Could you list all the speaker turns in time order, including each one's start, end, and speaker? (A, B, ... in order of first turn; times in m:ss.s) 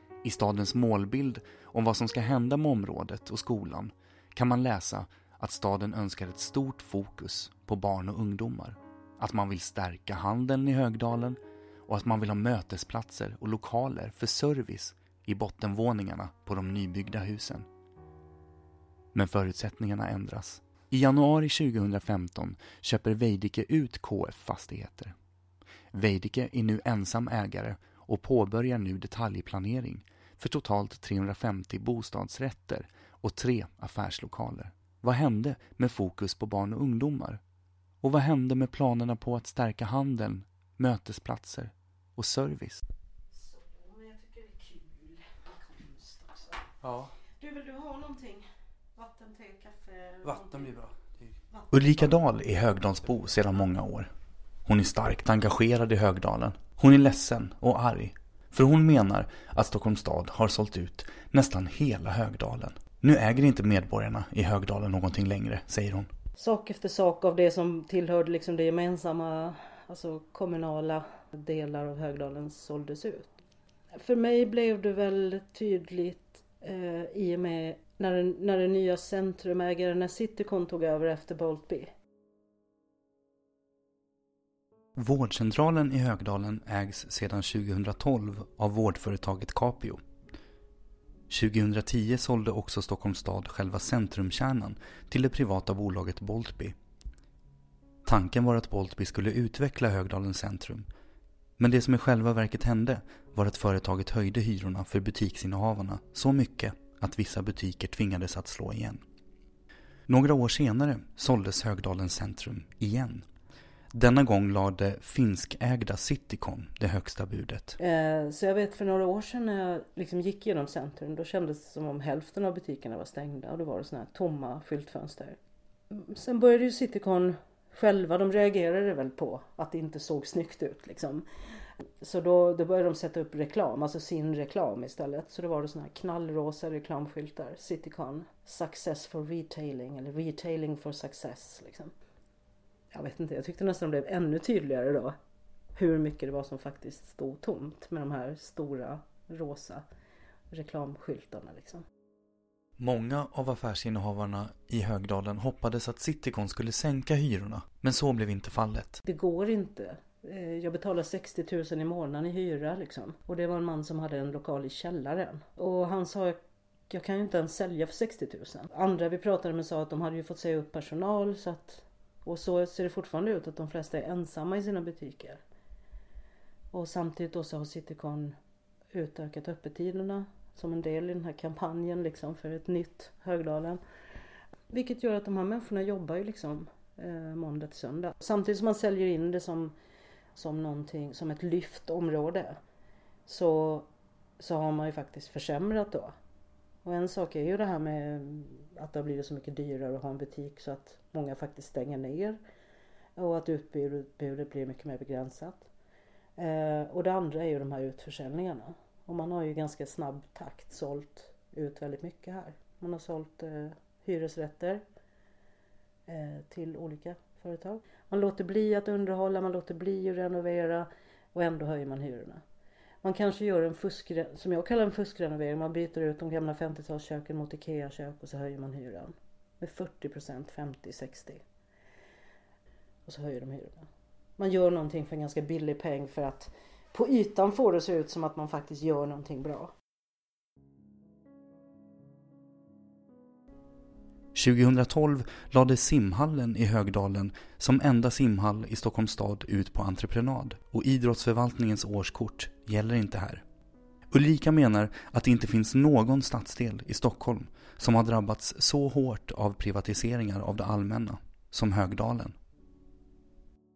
0:00.2-0:17.7 A
0:19.1-0:25.2 A
0:25.9-0:37.4 A
0:38.0-0:42.8 A
0:43.3-0:46.7 B
0:46.8-0:47.1 A
0:47.4-0:50.8 B
0:50.2-0:54.1 A
0:51.5-0:51.8 B
0:54.6-1:06.1 A
1:06.4-1:13.4 B
1:14.0-1:21.9 B
1:25.0-1:30.0 A
1:31.3-1:36.8 A
1:38.0-1:40.9 A
1:41.6-1:49.0 A
1:50.1-1:53.3 A
1:53.9-1:57.8 A
1:57.8-2:05.4 B
2:05.9-2:11.3 B
2:12.0-2:21.9 B
2:22.9-2:25.2 B
2:25.8-2:29.8 B
2:30.5-2:31.8 B
2:32.8-2:39.0 A
2:39.0-2:55.4 B
2:56.7-2:58.4 B
2:58.9-3:03.8 B
3:04.7-3:09.8 B
3:10.4-3:12.6 B
3:13.3-3:13.9 B
3:14.4-3:16.2 B
3:16.8-3:22.4 B
3:23.2-3:25.7 B
3:26.4-3:34.8 B
3:36.1-3:42.4 B
3:43.0-3:51.4 B
3:53.1-3:53.9 B
3:54.4-3:59.7 B
4:04.3-4:13.4 A
4:14.1-4:22.4 A